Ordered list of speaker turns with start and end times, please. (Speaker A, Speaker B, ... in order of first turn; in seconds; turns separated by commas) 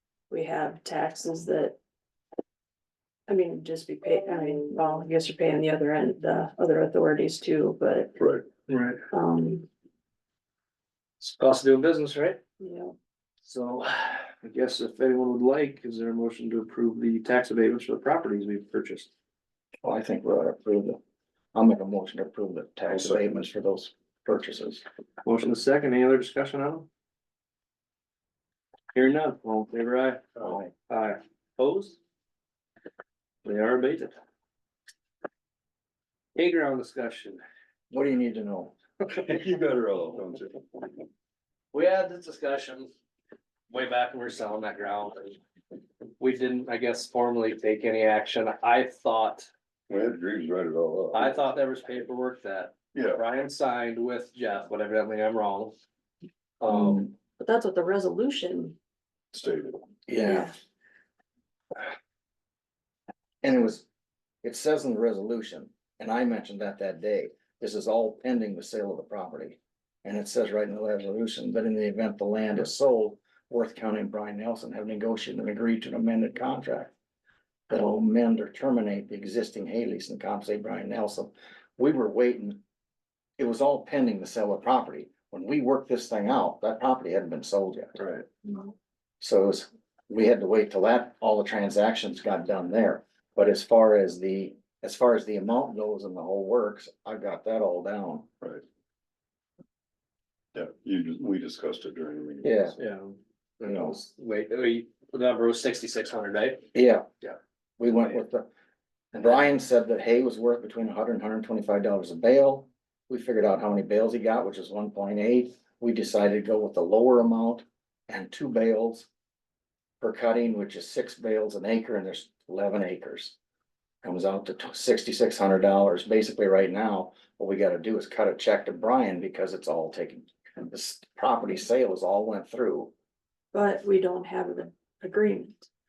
Speaker A: 0.3-1.8, Speaker A: 3.3-8.2, Speaker B: 8.2-8.4, Speaker C: 8.7-9.0, Speaker A: 9.1-9.7, Speaker C: 11.2-12.4, Speaker A: 12.6-12.9, Speaker C: 13.4-19.1, Speaker D: 19.8-21.0, Speaker D: 21.5-24.8, Speaker C: 25.2-26.9, Speaker C: 28.9-30.2, Speaker D: 30.4-30.7, Speaker C: 30.9-32.0, Speaker C: 33.4-34.1, Speaker C: 36.4-37.4, Speaker D: 37.9-38.8, Speaker B: 39.2-40.9, Speaker C: 41.7-42.9, Speaker C: 43.7-45.4, Speaker C: 46.2-49.5, Speaker B: 49.9-51.4, Speaker C: 51.1-55.7, Speaker B: 52.9-53.2, Speaker C: 56.6-57.1, Speaker D: 56.7-57.1, Speaker A: 57.4-58.8, Speaker B: 59.3-59.9, Speaker D: 60.1-60.5, Speaker A: 60.2-60.5, Speaker D: 63.4-63.9, Speaker D: 64.4-76.9, Speaker D: 77.7-82.6, Speaker D: 83.4-88.0, Speaker C: 88.0-88.3, Speaker D: 89.2-98.3, Speaker B: 100.5-102.7, Speaker D: 102.4-102.8, Speaker C: 102.8-106.7, Speaker D: 106.7-107.1, Speaker D: 107.8-108.5, Speaker D: 109.1-119.1, Speaker D: 120.0-123.4, Speaker D: 124.0-132.9, Speaker A: 133.5-135.7